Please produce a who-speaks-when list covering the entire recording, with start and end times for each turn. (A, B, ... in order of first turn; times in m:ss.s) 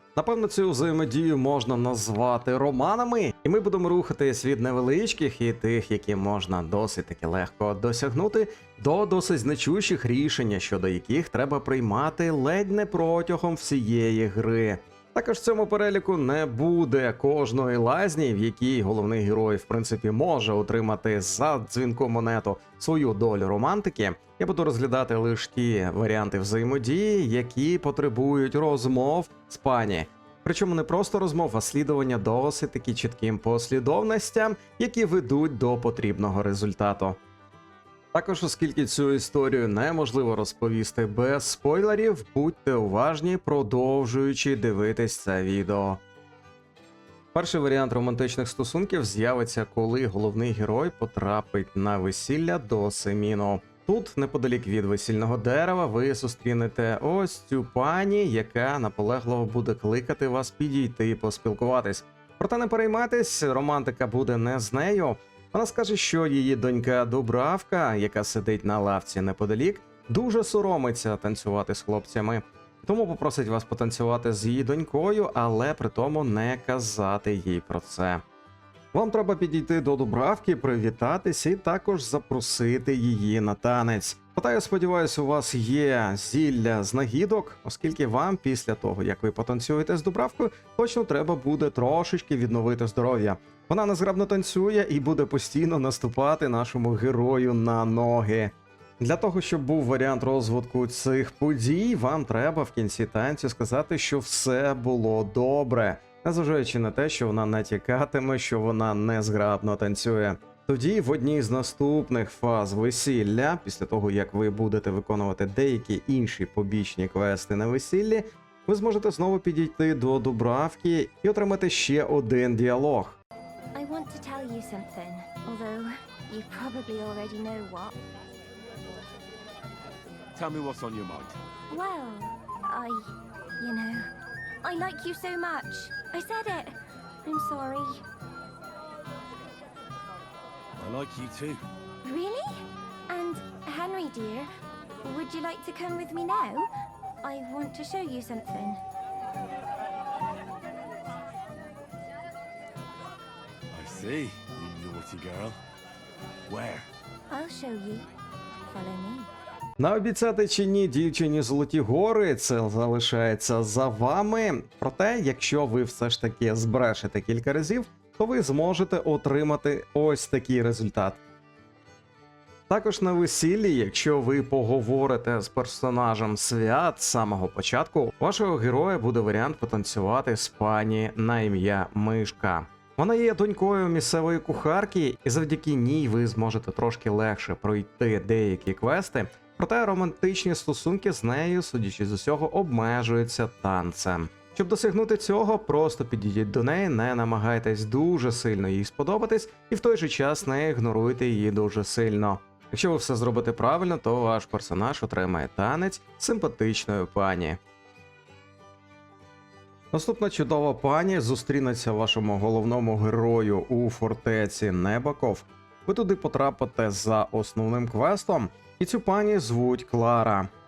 0:00.2-0:37.2 A
0:38.1-0:46.0 A
0:47.3-1:18.2 A
1:18.9-2:03.2 A
2:03.8-2:08.0 B
2:10.4-2:11.4 C
2:11.7-2:13.0 B
2:13.6-2:14.1 B
2:14.6-2:18.0 B
2:20.8-2:21.6 C
2:22.0-2:22.5 B
2:23.1-2:24.5 B
2:25.0-2:26.7 B
2:27.2-2:28.8 B
2:33.7-2:35.6 C
2:36.5-2:36.8 C
2:37.3-2:38.1 B
2:38.7-2:39.3 B
2:39.8-2:51.2 A
2:52.7-3:27.6 A
3:29.9-3:40.5 A